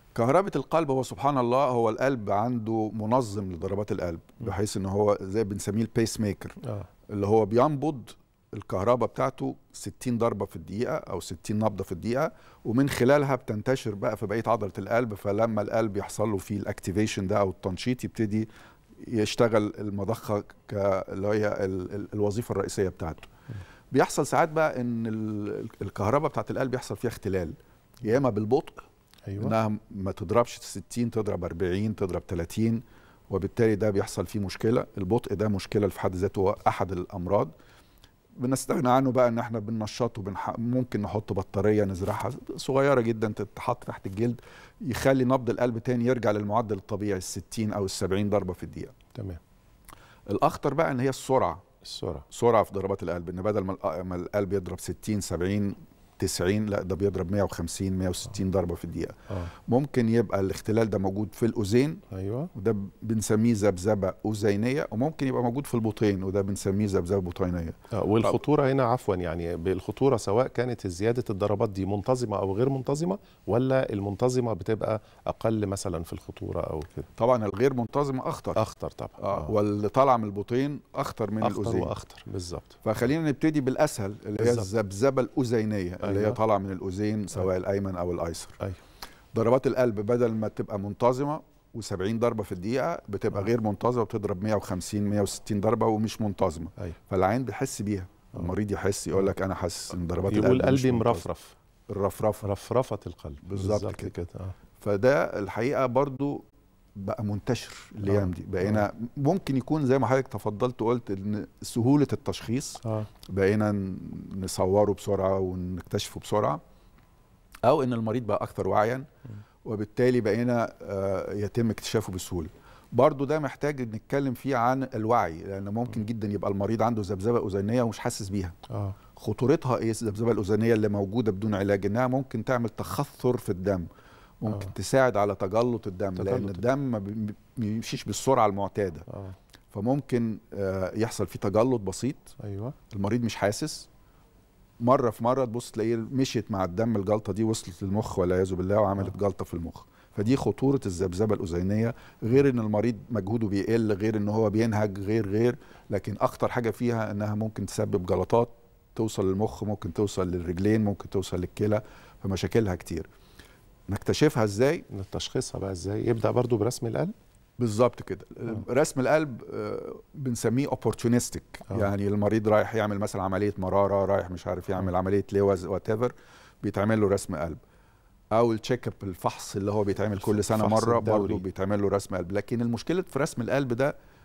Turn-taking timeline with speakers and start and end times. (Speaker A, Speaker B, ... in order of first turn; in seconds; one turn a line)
Speaker A: 0.1-23.3
Speaker A: 23.9-28.9
Speaker B: 29.3-29.6
Speaker A: 29.4-37.5
Speaker A: 38.4-49.0
Speaker B: 49.1-49.4
Speaker A: 50.3-51.6
Speaker B: 51.8-52.2
Speaker A: 52.3-67.8
Speaker B: 62.1-62.5
Speaker B: 67.9-77.1
Speaker A: 77.2-78.6
Speaker B: 78.5-79.5
Speaker A: 79.2-81.9
Speaker B: 81.4-82.8
Speaker A: 82.8-88.6
Speaker B: 84.4-84.7
Speaker B: 86.0-86.4
Speaker A: 89.3-101.3
Speaker B: 100.3-101.5
Speaker A: 101.9-102.5
Speaker B: 102.4-104.5
Speaker A: 103.4-104.1
Speaker A: 104.8-116.6
Speaker B: 108.0-108.8
Speaker B: 112.8-113.1
Speaker A: 117.6-119.1
Speaker A: 119.6-128.6
Speaker B: 128.7-129.0
Speaker A: 129.2-133.9
Speaker A: 134.4-139.1
Speaker B: 136.2-136.6
Speaker B: 139.1-139.3
Speaker A: 139.7-142.3
Speaker B: 142.4-142.7
Speaker A: 142.9-143.9
Speaker A: 144.8-163.1
Speaker A: 163.9-164.8
Speaker B: 164.9-167.1
Speaker A: 167.6-177.6
Speaker A: 178.3-183.9
Speaker B: 180.2-181.4